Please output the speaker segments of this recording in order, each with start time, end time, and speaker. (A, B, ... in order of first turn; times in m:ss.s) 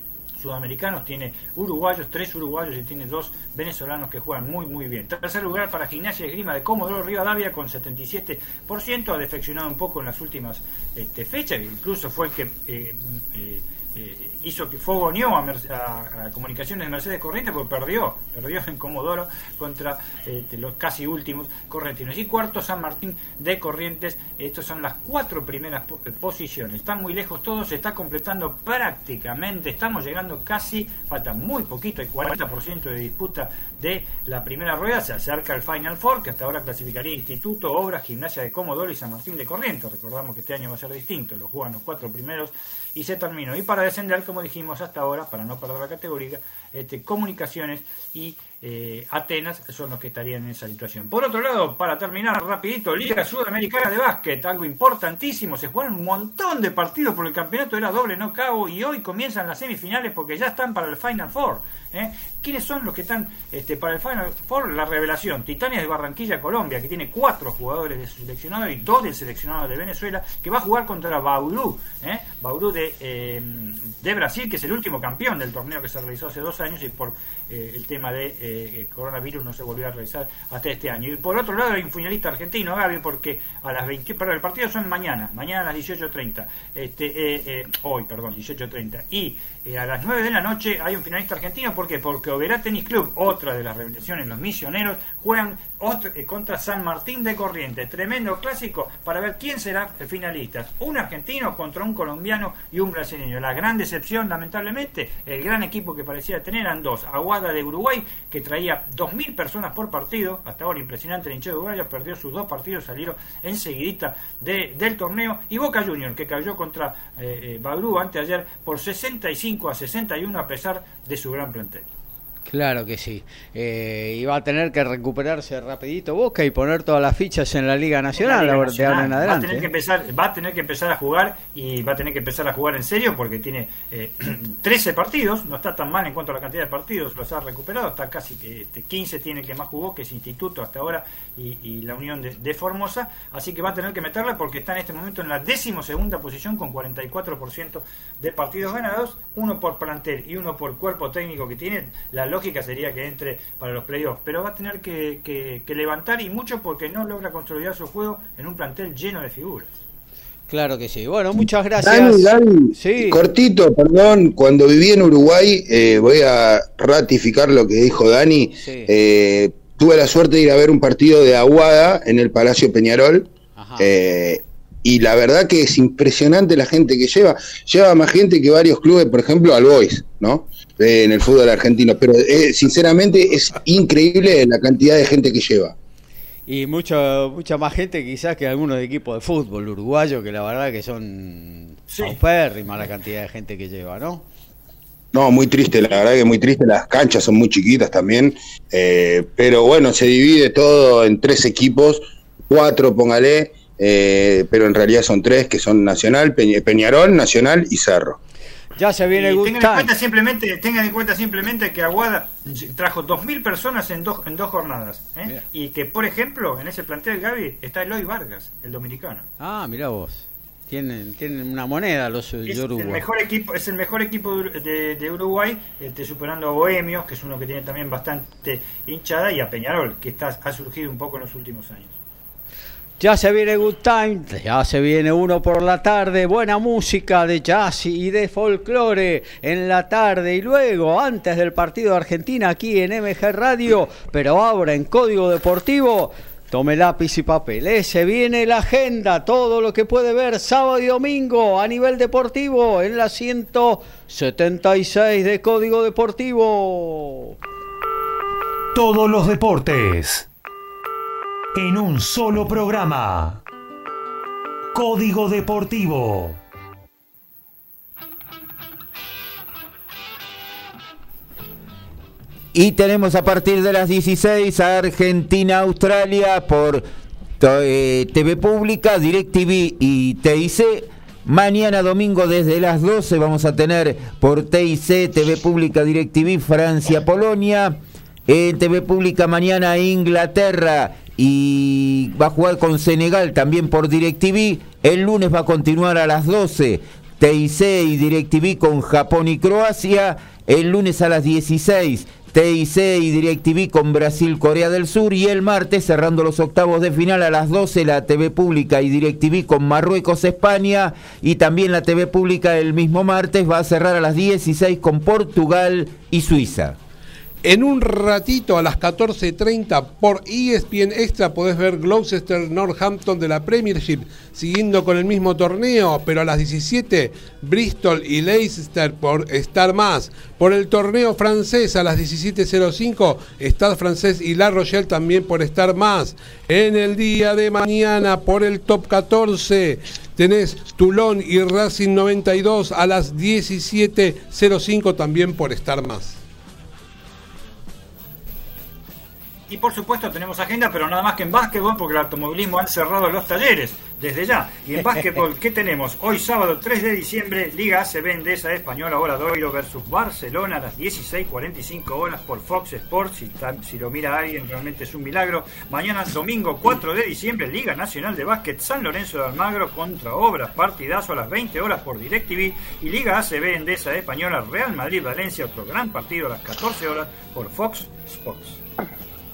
0:00.4-2:01.9 A
2:02.5-2:09.7 B
2:08.2-2:39.7 A
2:40.5-2:43.2 B
2:41.8-3:05.8 C
2:48.6-2:48.9 B
2:53.6-2:53.9 B
3:06.5-3:14.2 B
3:11.9-3:12.2 A
3:15.1-3:28.2 C
3:28.8-3:29.9 B
3:29.2-3:39.3 A
3:39.4-3:43.0 B
3:42.5-3:51.9 A
3:53.0-4:17.4 B
4:18.7-4:20.3 D
4:21.6-4:23.4 D
4:24.7-4:26.4 D
4:32.5-4:36.8 E
4:37.4-5:16.8 E
5:17.4-5:46.2 F
5:49.5-6:18.6 A